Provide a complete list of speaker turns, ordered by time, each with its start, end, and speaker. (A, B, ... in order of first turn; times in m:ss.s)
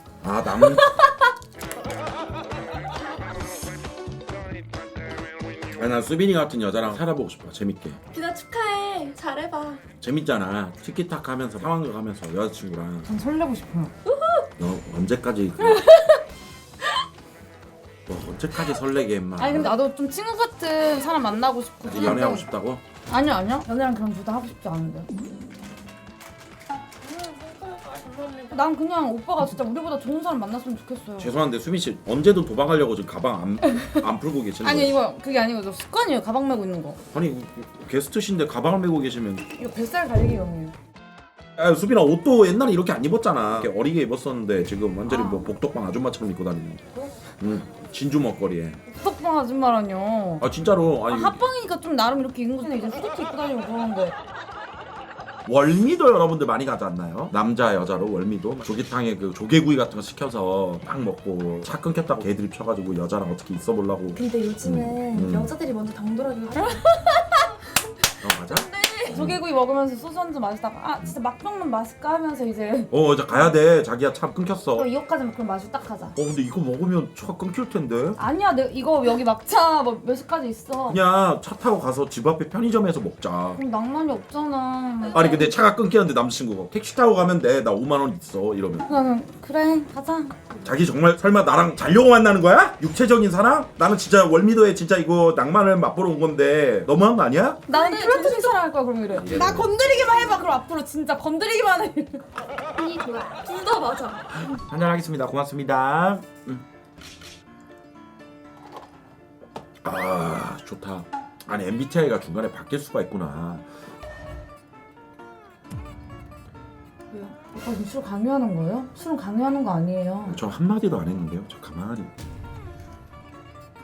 0:00.2-0:00.9 A
0:05.8-0:08.0 A
0:08.1-0:09.8 B
0:10.0-0:13.1 A
0:13.0-0:13.9 C
0:14.1-0:14.5 B
0:14.6-0:15.8 A
0:15.8-0:16.1 C
0:18.1-0:19.7 A
0:19.4-0:22.5 C
0:21.8-0:22.8 A
0:23.1-0:25.1 C
0:27.1-0:28.5 B
0:28.5-0:31.3 C
0:31.2-0:35.0 A
0:34.6-0:37.0 C
0:37.1-0:39.4 A
0:39.5-0:40.7 C
0:41.6-0:46.8 A
0:45.0-0:45.5 C
0:47.4-0:48.8 A
0:48.9-0:50.4 C
0:50.4-0:51.4 A
0:51.1-0:54.1 C
0:55.4-1:05.5 A
1:04.1-1:07.4 B
1:08.2-1:09.4 A
1:08.4-1:09.2 B
1:09.1-1:12.9 C
1:12.9-1:14.8 A
1:14.7-1:16.2 C
1:16.2-1:18.2 A
1:18.2-1:21.0 C
1:20.9-1:23.6 A
1:23.5-1:25.5 C
1:25.1-1:29.0 A
1:28.9-1:30.6 C
1:30.6-1:37.6 A
1:37.7-1:42.2 C
1:37.7-1:38.6 B
1:39.2-1:39.7 A
1:39.4-1:40.4 B
1:42.7-1:44.2 B
1:44.3-1:46.6 A
1:49.8-1:53.7 A
1:57.1-2:00.4 C
2:00.3-2:02.1 A